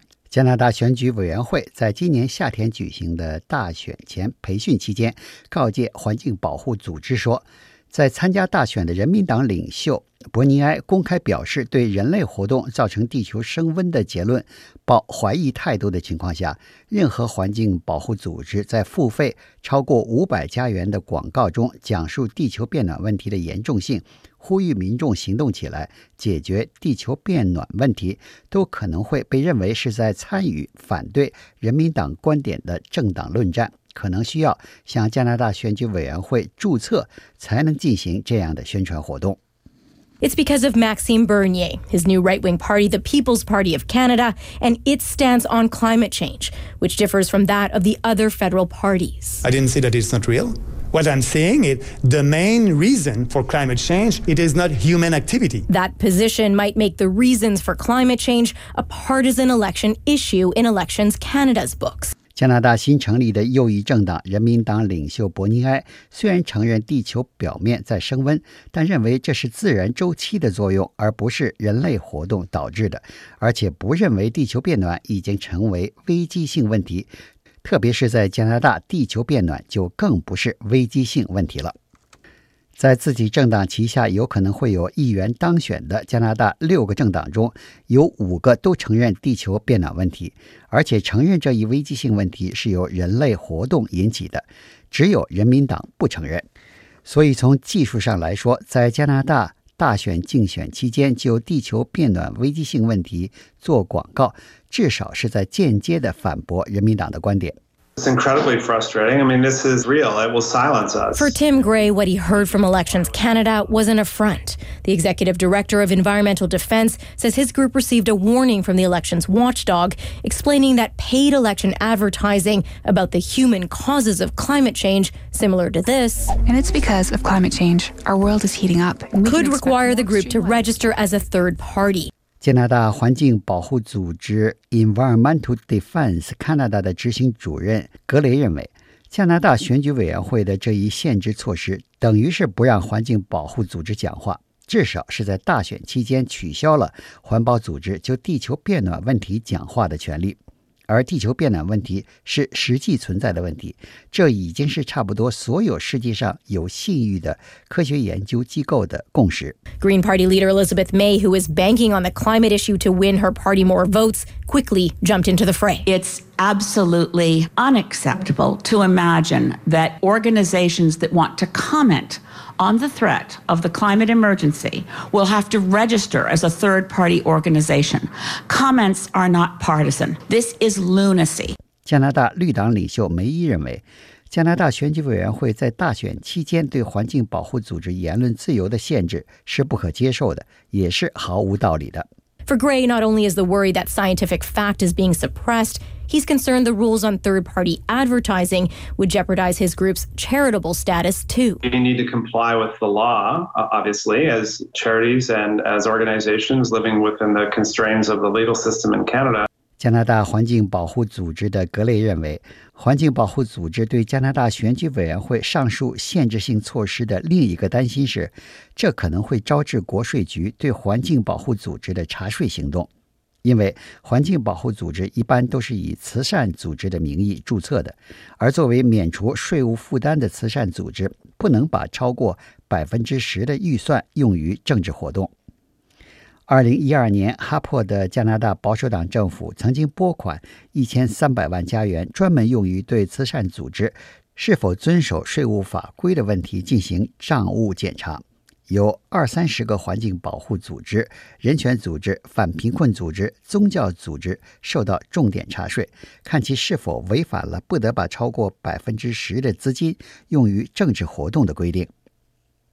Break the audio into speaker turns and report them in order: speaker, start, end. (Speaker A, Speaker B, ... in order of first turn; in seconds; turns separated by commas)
Speaker A: 0.3-39.4, Speaker B: 40.2-49.4, Speaker C: 49.4-55.7, Speaker B: 55.7-62.1, Speaker A: 62.3-77.1, Speaker A: 77.6-81.8, Speaker A: 82.8-96.5, Speaker A: 97.0-107.6, Speaker D: 108.0-111.4, Speaker B: 111.1-126.3, Speaker E: 126.5-130.9, Speaker B: 129.2-132.1, Speaker A: 132.4-150.4, Speaker A: 150.9-159.6, Speaker B: 159.8-165.8, Speaker F: 165.9-181.6, Speaker A: 181.8-192.1, Speaker B: 192.5-201.6, Speaker D: 201.6-209.5, Speaker A: 209.8-222.9, Speaker A: 223.4-235.3, Speaker A: 236.5-261.9